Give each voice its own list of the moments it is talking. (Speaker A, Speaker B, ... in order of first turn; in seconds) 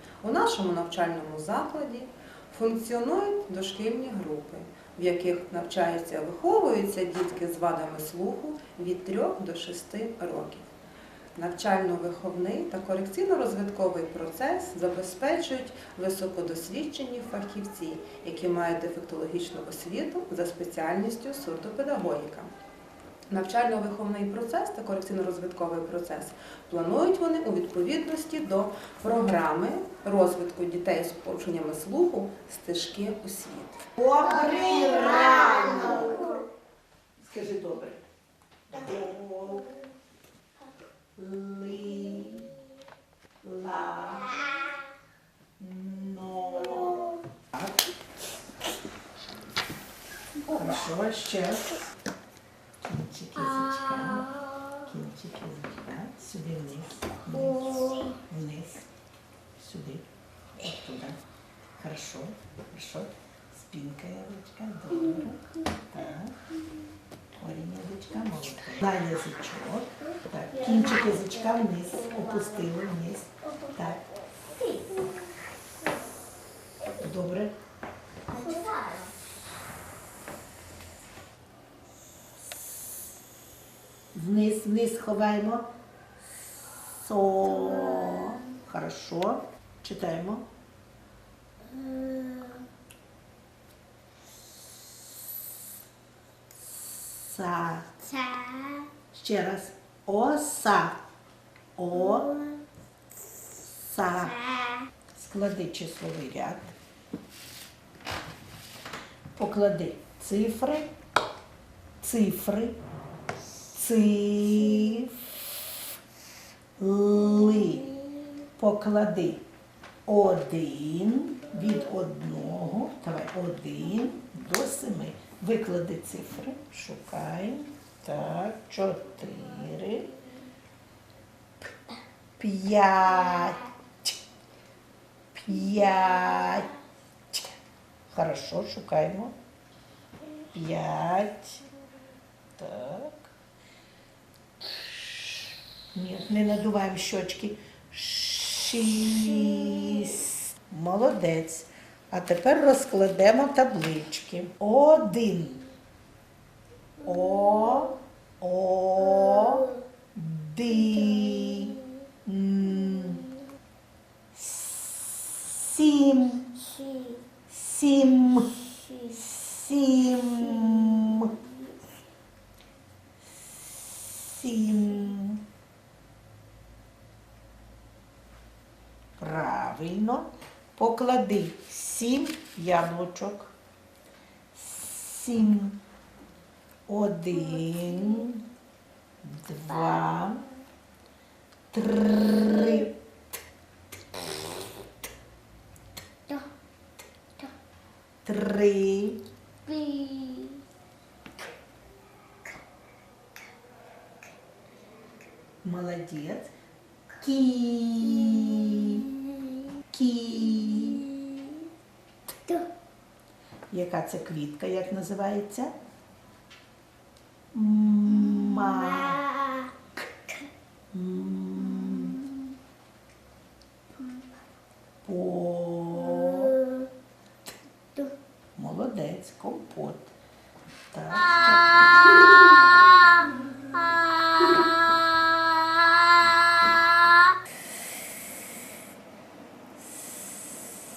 Speaker A: 0.2-10.7, 11.3-22.5, 23.3-33.8
Speaker B: 34.0-36.4, 37.2-38.0, 38.7-39.8, 41.1-42.5, 43.4-44.7, 45.6-47.9, 50.5-51.8, 52.8-58.9, 59.6-60.1, 60.6-61.2, 61.8-66.4, 67.4-74.0, 76.9-77.5, 84.1-85.7, 86.4-90.5, 96.6-98.1, 99.1-101.0, 101.8-102.5, 103.6-104.5, 105.1-106.7, 109.3-110.9, 112.0-112.8, 113.7-115.2, 116.8-119.4, 120.1-130.2, 132.4-134.2, 135.3-136.8, 138.1-139.3, 140.5-141.6, 142.6-143.3, 144.9-155.7, 157.0-163.4, 164.3-166.8, 167.5-171.4, 173.4-175.4, 179.2-183.5, 184.5-185.8, 186.9-188.5, 189.2-190.5, 191.7-192.9, 198.2-199.2, 205.6-206.5, 207.2-209.1, 209.9-211.2, 213.7-215.7, 217.5-219.4, 220.9-222.3, 225.0-226.6, 228.6-230.1, 230.9-232.1
Speaker C: 74.6-75.0, 78.3-79.1, 91.8-92.6, 98.4-98.8, 199.7-200.6, 234.9-237.2